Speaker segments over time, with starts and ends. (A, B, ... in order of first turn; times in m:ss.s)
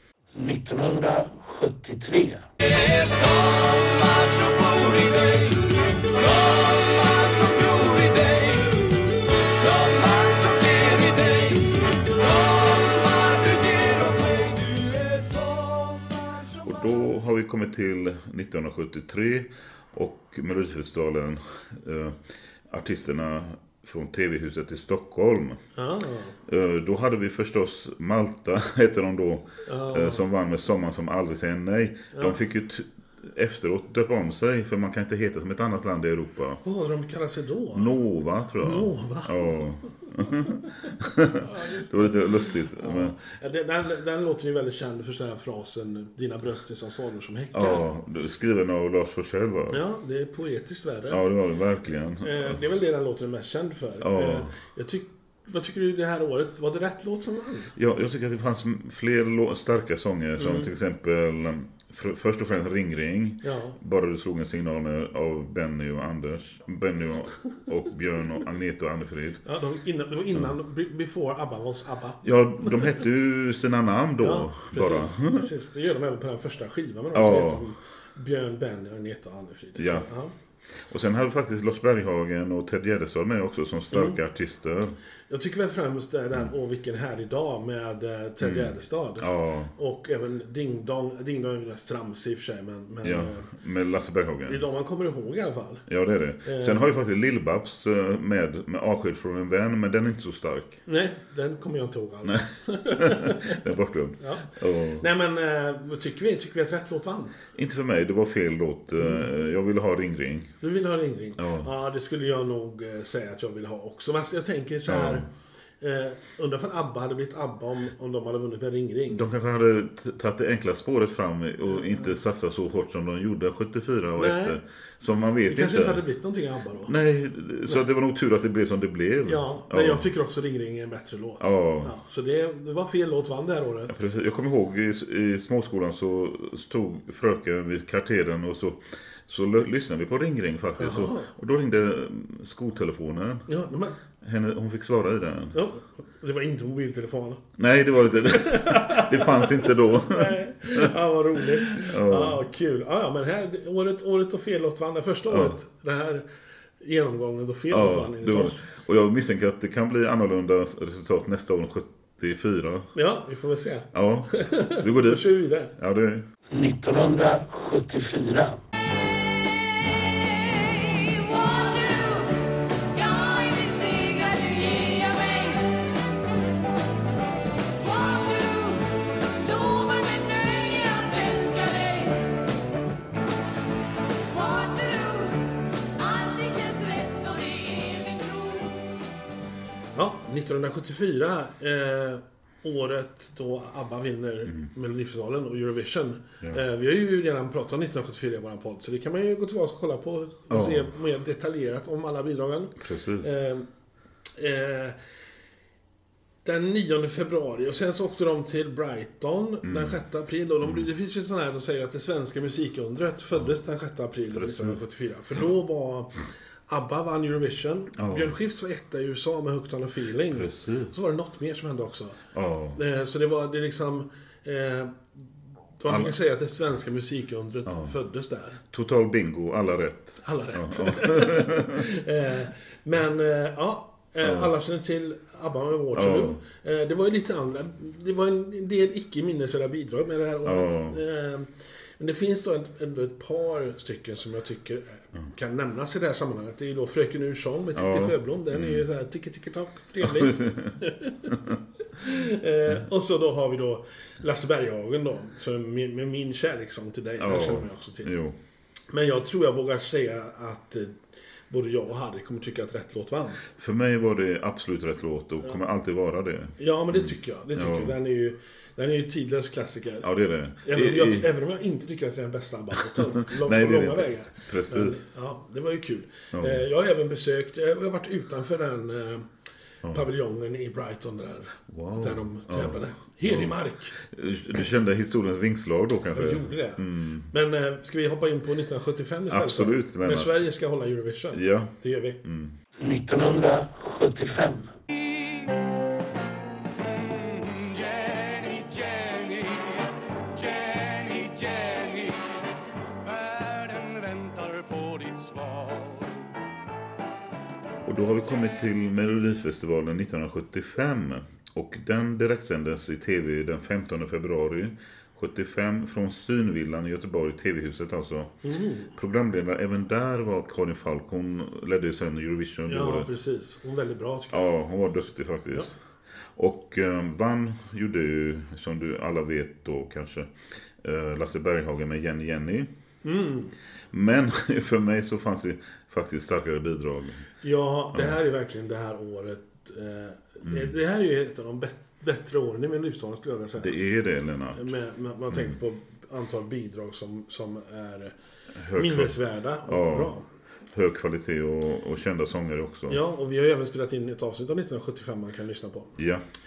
0:00.3-0:02.5 A
0:02.6-0:16.7 B
0:16.6-0:25.6 C
0:25.8-0:26.4 D
0:26.5-0:36.6 C
0:29.6-0:30.2 D
0:32.1-0:32.4 D
0:36.6-0:37.9 D
0:37.7-0:43.2 C
0:38.6-0:39.6 D
0:41.3-0:47.9 D
0:47.5-0:49.8 C
0:49.7-0:51.2 D
0:51.1-0:52.6 C
0:52.2-0:57.7 D
0:54.0-0:54.5 C
0:57.7-1:09.4 C
1:00.4-1:00.7 D
1:03.4-1:03.8 D
1:09.4-1:13.0 D
1:12.2-1:15.5 C
1:14.2-1:20.3 D
1:17.1-1:17.7 C
1:19.8-1:20.1 C
1:20.8-1:25.0 C
1:23.9-1:24.2 D
1:25.3-1:33.5 D
1:28.4-1:29.7 C
1:33.0-1:34.6 C
1:34.5-1:35.8 D
1:35.9-1:40.8 C
1:36.4-1:36.9 D
1:40.8-1:43.6 D
1:42.9-1:45.0 C
1:44.2-1:47.4 D
1:47.5-1:50.5 C
1:49.0-1:49.2 D
1:50.6-1:55.3 D
1:51.4-1:51.7 C
1:54.9-1:55.2 C
1:55.8-1:59.3 D
1:59.1-2:06.0 C
2:01.7-2:02.1 D
2:04.2-2:04.6 D
2:05.4-2:06.9 D
2:06.8-2:10.0 C
2:09.2-2:13.9 D
2:11.4-2:11.9 C
2:13.9-2:23.5 C
2:20.8-2:21.3 D
2:23.5-2:24.0 D
2:24.2-2:25.6 C
2:25.5-2:27.4 D
2:27.6-2:32.4 C
2:28.1-2:36.2 D
2:35.3-2:35.6 C
2:36.8-2:38.6 D
2:37.7-2:42.9 C
2:42.9-2:45.7 D
2:43.9-2:46.2 C
2:46.5-2:48.6 A
2:49.0-2:56.0 B
2:57.8-3:02.4 B
3:04.3-3:08.9 B
3:09.9-3:23.7 D
3:20.5-3:20.9 C
3:22.8-3:23.3 C
3:24.4-3:25.0 D
3:26.4-3:36.2 D
3:29.6-3:30.0 C
3:34.3-3:34.8 C
3:36.7-3:42.2 D
3:38.0-3:38.3 C
3:40.3-3:40.9 C
3:42.3-3:42.8 C
3:42.7-3:45.1 D
3:45.8-3:48.6 D
3:45.9-3:46.1 C
3:47.6-3:48.0 C
3:48.7-3:51.8 C
3:50.2-4:11.4 D
3:54.2-3:54.5 C
3:55.9-3:56.4 C
4:00.4-4:01.0 C
4:07.7-4:08.8 C
4:10.0-4:11.6 C
4:11.9-4:18.1 D
4:17.2-4:18.4 C
4:18.9-4:23.4 D
4:23.6-4:27.9 C
4:26.6-4:30.1 D
4:30.0-4:31.3 C
4:30.6-4:39.3 D
4:32.9-4:35.0 C
4:36.3-4:36.6 C
4:39.9-4:44.0 D
4:41.7-4:47.3 C
4:46.1-4:52.2 D
4:49.3-4:50.3 C
4:51.3-4:51.7 C
4:52.2-4:52.6 C
4:52.8-4:54.7 A
4:56.9-5:02.2 B
5:03.0-5:06.2 B
5:07.8-5:18.4 C
5:18.4-5:18.9 D
5:18.9-5:23.1 C
5:22.7-5:24.5 D
5:24.3-5:25.7 C
5:26.4-5:32.7 C
5:33.0-5:33.5 D
5:33.9-5:37.2 C
5:37.4-5:43.8 D
5:40.4-5:40.8 C
5:43.6-5:44.7 C
5:44.5-5:48.1 D
5:48.5-5:50.1 C
5:48.7-5:50.2 D
5:50.7-5:53.0 C
5:52.9-5:56.0 D
5:56.0-5:56.2 C